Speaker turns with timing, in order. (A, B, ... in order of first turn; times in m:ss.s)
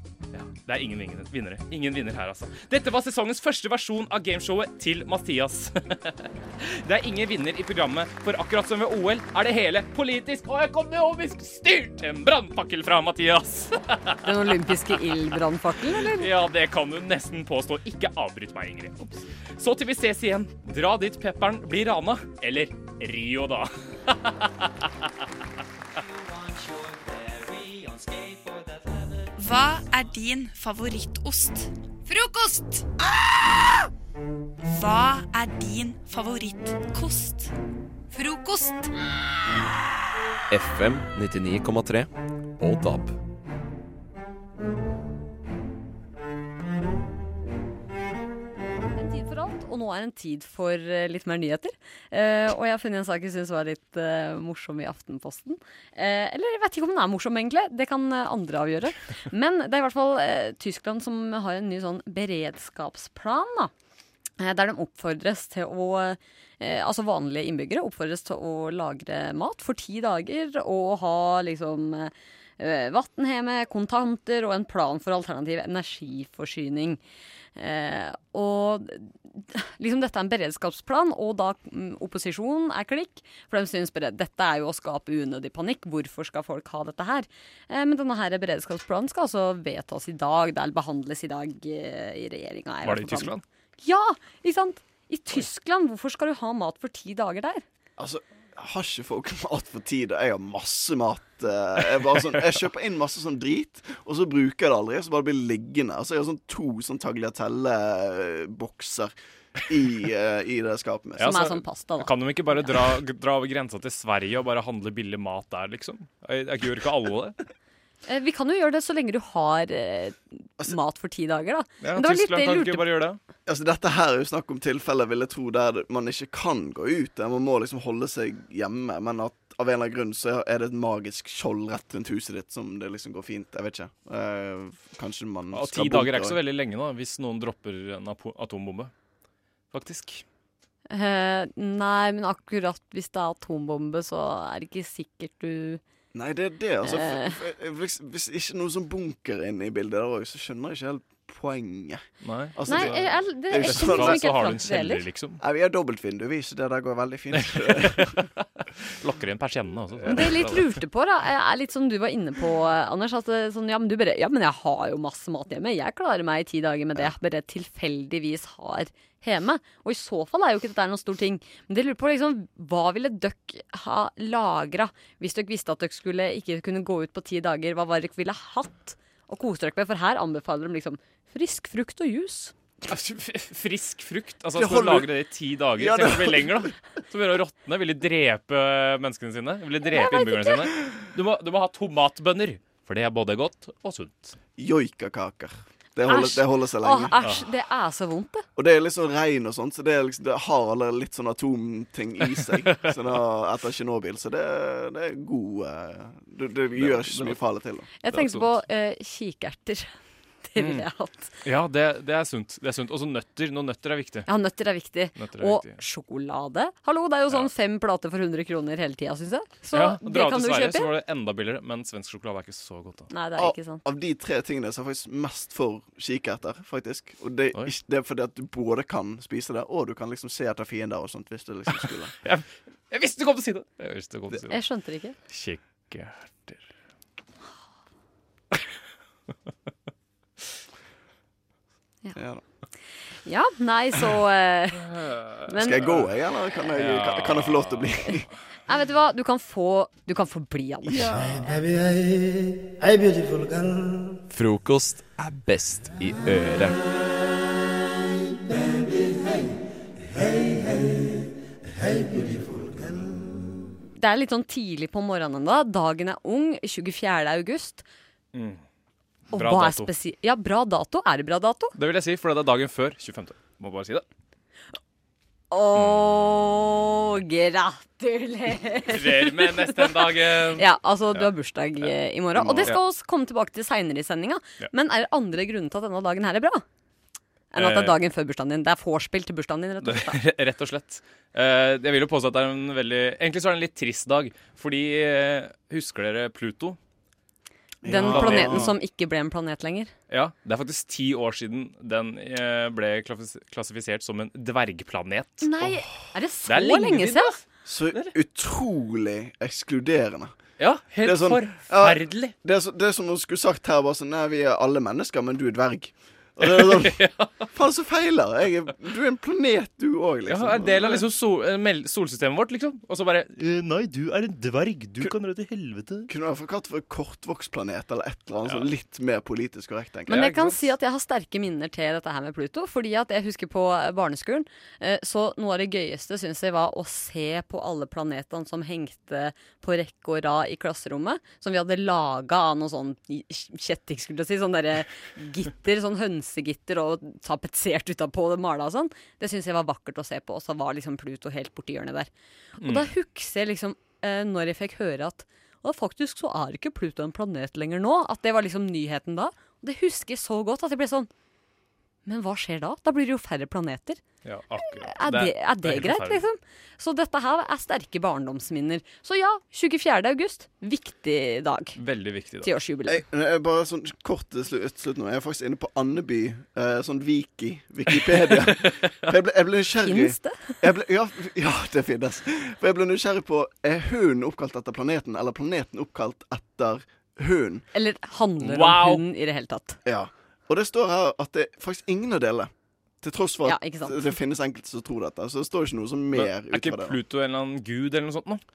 0:00.3-0:14.6 A
0:14.2-0:16.3 B
0:16.0-0:24.9 A
0:29.4-0:32.8 C
0:34.6-0:37.5 C
0:38.1-0:38.9 C
0:40.5-0:43.1 D
0:49.0-1:03.7 B
1:04.4-1:17.0 B
1:17.6-1:37.6 B
1:32.8-1:33.4 A
1:38.0-1:49.1 E
1:42.2-1:42.4 A
1:49.7-1:51.4 E
1:51.2-1:57.4 A
1:51.2-1:52.1 B
1:58.1-2:02.9 B
2:01.8-2:03.2 A
2:03.5-2:16.4 E
2:15.5-2:18.9 A
2:19.7-2:20.2 A
2:20.9-2:25.8 B
2:26.1-2:34.3 E
2:26.8-2:27.4 B
2:32.2-2:35.4 A
2:32.6-2:35.0 B
2:35.4-2:38.2 E
2:37.4-2:40.7 A
2:40.1-3:02.5 B
3:02.9-3:14.3 A
3:04.5-3:05.1 E
3:05.8-3:06.7 E
3:09.8-3:10.7 B
3:14.6-3:17.2 E
3:16.1-3:18.4 B
3:17.2-3:17.5 A
3:18.6-3:27.9 E
3:22.4-3:22.9 A
3:26.7-3:27.4 A
3:28.0-3:29.9 B
3:28.1-3:28.5 A
3:30.4-3:31.3 B
3:30.6-3:30.8 A
3:31.4-3:34.3 A
3:34.3-3:40.9 B
3:35.2-3:35.8 A
3:39.7-3:43.1 A
3:43.1-3:43.8 B
3:43.4-3:52.1 E
3:51.7-3:54.6 A
3:54.5-3:55.2 B
3:55.3-3:56.6 A
4:02.1-4:02.4 E
4:03.2-4:04.9 B
4:04.8-4:06.1 A
4:05.4-4:05.8 B
4:05.6-4:08.3 E
4:06.7-4:07.9 A
4:08.7-4:11.1 B
4:10.8-4:11.5 E
4:14.3-4:16.8 D
4:24.0-4:27.8 B
4:28.3-4:28.6 A
4:29.3-4:29.9 A
4:29.3-4:31.7 B
4:31.8-4:34.0 A
4:35.5-4:46.6 B
4:38.9-4:41.3 A
4:42.4-4:42.8 E
4:47.5-4:50.2 B
4:47.5-4:48.0 A
4:49.8-4:56.8 A
4:57.8-4:58.7 E
4:57.9-4:59.9 B
4:57.9-4:58.7 A
5:00.1-5:05.5 A
5:05.4-5:07.3 B
5:06.5-5:08.1 A
5:07.6-5:10.3 E
5:10.6-5:12.3 A
5:11.0-5:21.0 E
5:16.4-5:17.4 A
5:20.3-5:26.1 A
5:26.1-5:30.4 E
5:28.4-5:28.7 A
5:30.1-6:01.1 B
5:30.1-5:30.6 A
5:52.6-5:52.9 A
6:02.0-6:04.0 B
6:04.2-6:06.2 A
6:04.8-6:11.8 B
6:11.8-6:12.5 A
6:12.4-6:13.0 B
6:12.9-6:27.6 E
6:18.4-6:18.7 A
6:19.8-6:20.6 B
6:27.7-6:29.8 B
6:28.4-6:29.0 A
6:29.8-6:32.5 E
6:33.0-6:37.0 E
6:33.4-6:34.2 B
6:36.1-6:38.4 A